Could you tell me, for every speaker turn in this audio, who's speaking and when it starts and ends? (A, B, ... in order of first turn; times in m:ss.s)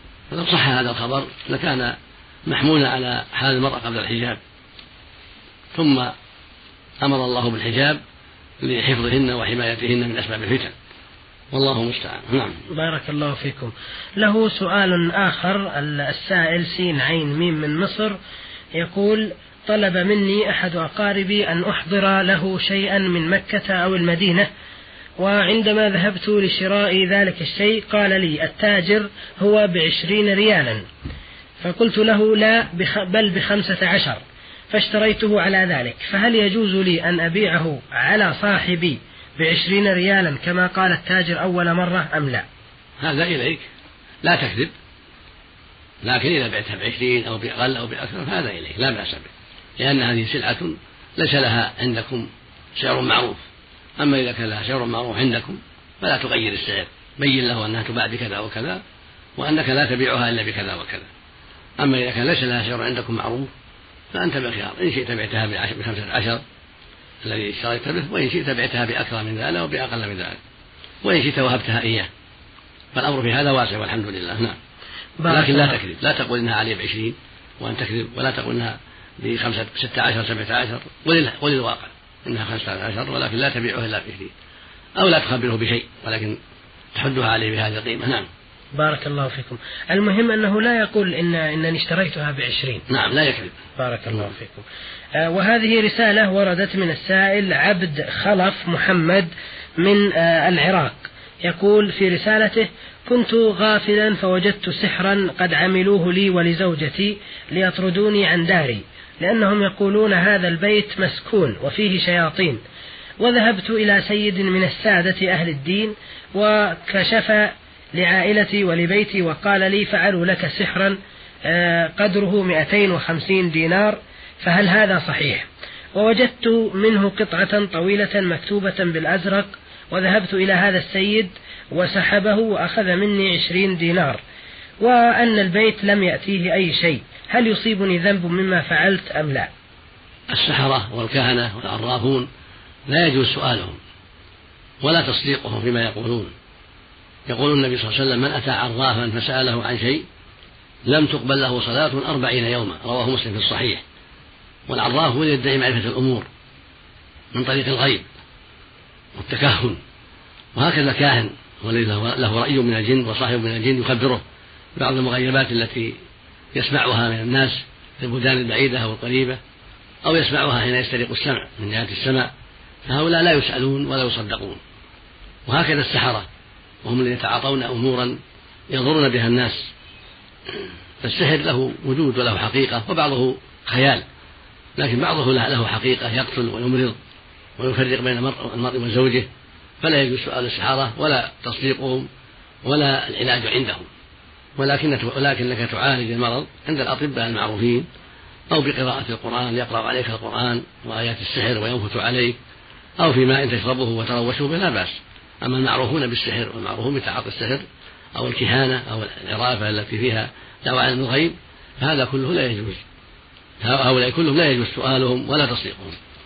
0:00.3-0:04.4 A
0:05.7-0:06.1 A
0:07.0-0:08.0 A
0:08.6-0:10.7 A
0:11.5-0:12.6 A
0:12.7-0:18.2 B
0:18.8-0:24.5 B
0:25.2-0:30.8 B
0:31.6-0:42.5 B
0:43.0-0:43.7 A
0:44.2-0:44.7 A
0:46.0-0:53.4 A
0:54.0-0:58.8 A
0:59.4-1:01.1 A
1:01.8-1:03.5 A
1:04.1-1:06.4 A
1:07.2-1:10.4 A
1:11.0-1:12.1 A
1:13.0-1:14.6 A
1:15.2-1:15.8 B
1:15.3-1:24.3 A
1:25.0-1:26.4 A
1:27.0-1:28.3 A
1:28.8-1:32.8 B
1:32.9-1:33.6 A
1:33.8-1:34.6 B
1:35.2-1:52.6 B
1:53.2-2:14.2 B
2:14.8-2:19.5 B
2:20.3-2:22.3 A
2:22.9-2:23.8 A
2:24.8-2:26.3 A
2:27.3-2:30.0 A
2:30.9-2:33.8 A
2:34.7-2:36.3 A
2:37.3-2:38.1 A
2:39.2-2:39.8 A
2:40.6-2:44.2 A
2:44.8-2:46.0 A
2:46.5-2:49.4 A
2:50.0-2:52.3 A
2:52.9-2:54.6 A
2:55.5-2:56.3 A
2:56.8-2:59.7 A
3:00.5-3:04.0 A
3:04.8-3:07.0 A
3:07.6-3:09.3 A
3:09.8-3:12.1 A
3:12.6-3:13.9 A
3:14.6-3:17.9 A
3:18.5-3:22.4 A
3:23.0-3:27.6 A
3:28.2-3:32.8 A
3:33.6-3:36.0 A